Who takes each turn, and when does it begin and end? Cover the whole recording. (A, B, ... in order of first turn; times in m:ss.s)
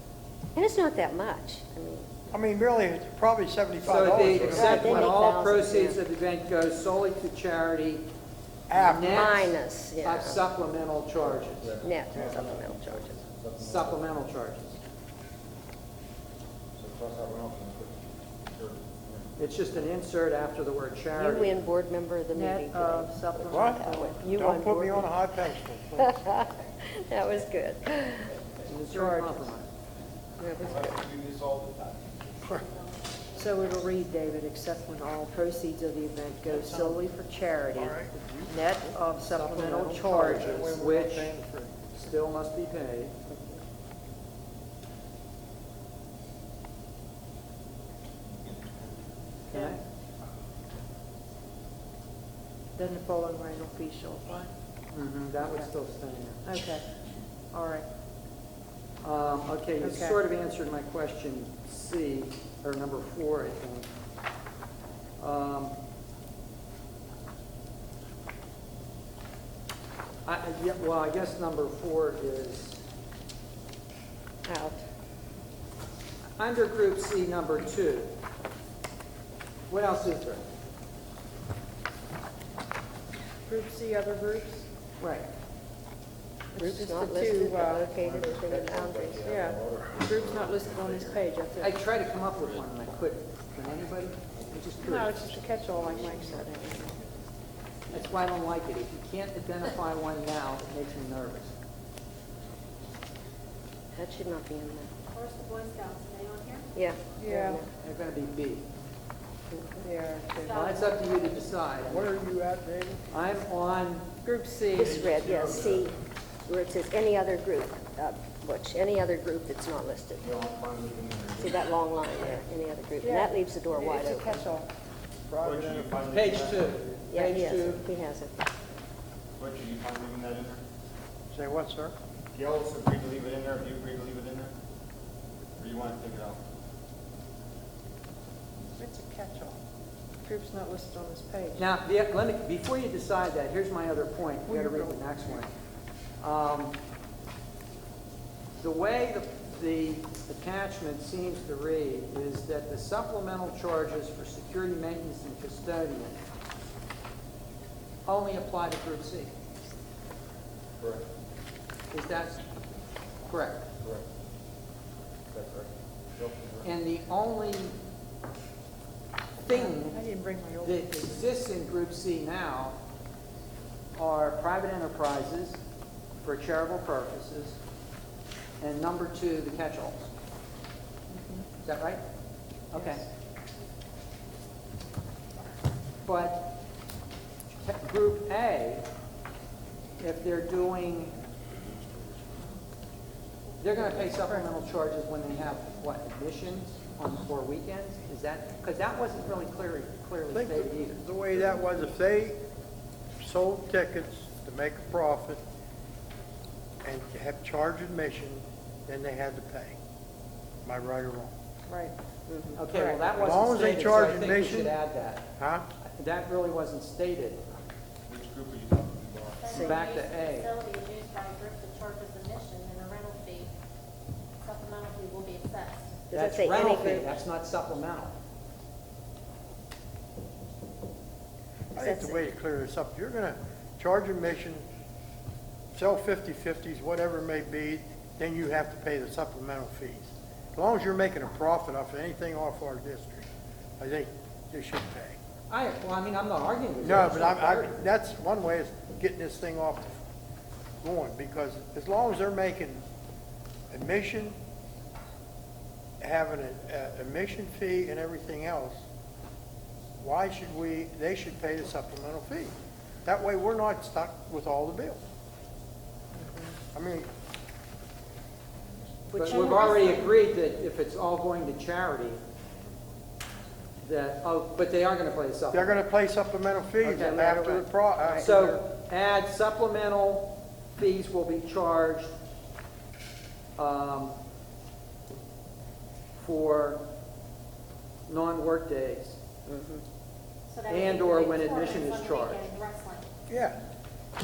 0:00.6-0:02.1 A
0:02.3-0:05.1 B
0:03.8-0:08.1 C
0:04.3-0:06.0 A
0:08.7-0:09.3 B
0:08.7-0:11.8 C
0:09.0-0:10.4 A
0:11.2-0:14.1 D
0:11.8-0:13.2 A
0:13.6-0:14.8 C
0:16.8-0:19.3 D
0:19.4-0:21.6 C
0:21.1-0:25.1 A
0:22.4-0:24.5 E
0:23.4-0:26.2 B
0:26.0-0:28.3 A
0:28.7-0:29.7 C
0:28.9-0:29.5 E
0:30.4-0:31.0 A
0:30.6-0:32.5 D
0:32.4-0:34.1 F
0:33.4-0:40.7 E
0:36.5-0:37.0 B
0:37.7-0:42.0 B
0:40.3-0:41.3 C
0:41.9-0:43.2 C
0:49.5-0:49.8 C
0:52.8-0:54.5 E
0:54.9-0:56.4 C
0:56.4-0:56.8 E
0:57.5-0:57.9 E
0:59.0-1:03.9 C
0:59.8-1:00.2 E
1:05.2-1:05.8 C
1:10.3-1:12.8 C
1:14.5-1:14.8 A
1:16.4-1:18.2 C
1:19.7-1:20.4 C
1:23.5-1:24.7 E
1:25.0-1:25.3 C
1:26.5-1:27.9 E
1:26.6-1:29.4 A
1:28.0-1:31.2 D
1:29.2-1:31.8 E
1:31.6-1:35.2 C
1:34.5-1:35.3 D
1:34.8-1:36.4 E
1:35.8-1:36.9 A
1:37.9-1:41.6 C
1:44.0-1:44.9 A
1:45.1-1:46.7 F
1:46.8-1:47.7 A
1:47.2-1:47.6 E
1:47.8-1:48.7 C
1:49.5-1:49.8 A
1:49.8-1:50.6 E
1:50.4-1:51.0 F
1:50.5-1:52.1 C
1:51.8-1:53.1 B
1:53.1-1:54.1 C
1:54.2-1:54.9 E
1:54.7-1:55.9 A
1:54.8-1:55.9 D
1:56.4-2:00.3 A
2:00.2-2:01.6 D
2:01.4-2:04.4 A
2:03.0-2:04.7 E
2:05.3-2:06.6 B
2:05.4-2:06.8 D
2:06.1-2:07.9 C
2:07.1-2:08.3 A
2:09.4-2:10.6 D
2:11.3-2:12.0 B
2:12.3-2:14.5 D
2:15.6-2:16.4 D
2:18.8-2:19.6 E
2:20.2-2:21.7 E
2:21.6-2:25.5 C
2:24.5-2:25.4 B
2:26.2-2:26.8 C
2:28.6-2:36.2 C
2:38.1-2:39.3 C
2:40.8-2:41.1 D
2:41.9-2:42.4 C
2:43.3-2:43.7 C
2:43.8-2:44.1 D
2:45.3-2:46.7 D
2:46.6-2:47.8 C
2:49.4-2:50.0 C
2:49.5-2:50.8 E
2:50.6-2:52.8 C
2:54.0-2:55.6 C
2:56.2-2:57.6 C
2:58.6-3:00.1 C
3:01.1-3:01.4 E
3:01.6-3:02.0 C
3:02.7-3:03.1 C
3:06.0-3:06.6 C
3:07.6-3:08.9 C
3:10.0-3:11.1 C
3:13.6-3:21.0 C
3:20.3-3:22.4 B
3:23.2-3:25.4 B
3:26.8-3:29.8 B
3:30.6-3:31.3 B
3:31.7-3:33.1 E
3:32.3-3:32.6 A
3:32.6-3:35.3 C
3:33.2-3:34.8 B
3:35.4-3:35.7 B
3:35.8-3:37.4 C
3:38.1-3:39.5 D
3:39.4-3:43.5 F
3:39.5-3:39.8 A
3:39.5-3:40.5 C
3:44.4-3:46.0 F
3:46.1-3:47.1 A
3:46.1-3:48.1 C
3:51.8-3:52.2 A
3:51.8-3:54.6 B
3:55.7-4:03.3 B
4:03.8-4:05.2 B
4:05.5-4:07.8 C
4:06.8-4:10.0 B
4:10.8-4:12.8 B
4:13.7-4:14.4 B
4:16.0-4:18.8 B
4:20.0-4:25.0 B
4:26.2-4:26.5 E
4:26.7-4:27.1 B
4:29.1-4:32.2 C
4:29.2-4:30.1 F
4:29.2-4:29.5 E
4:33.8-4:35.8 C
4:35.5-4:38.6 B
4:36.8-4:37.3 C
4:36.9-4:38.2 A
4:38.2-4:42.1 C
4:43.6-4:44.2 C
4:46.2-4:46.8 C
4:48.1-4:49.2 C
4:49.5-4:49.8 A
4:50.5-4:53.1 F
4:50.7-4:52.5 C
4:53.3-4:53.6 B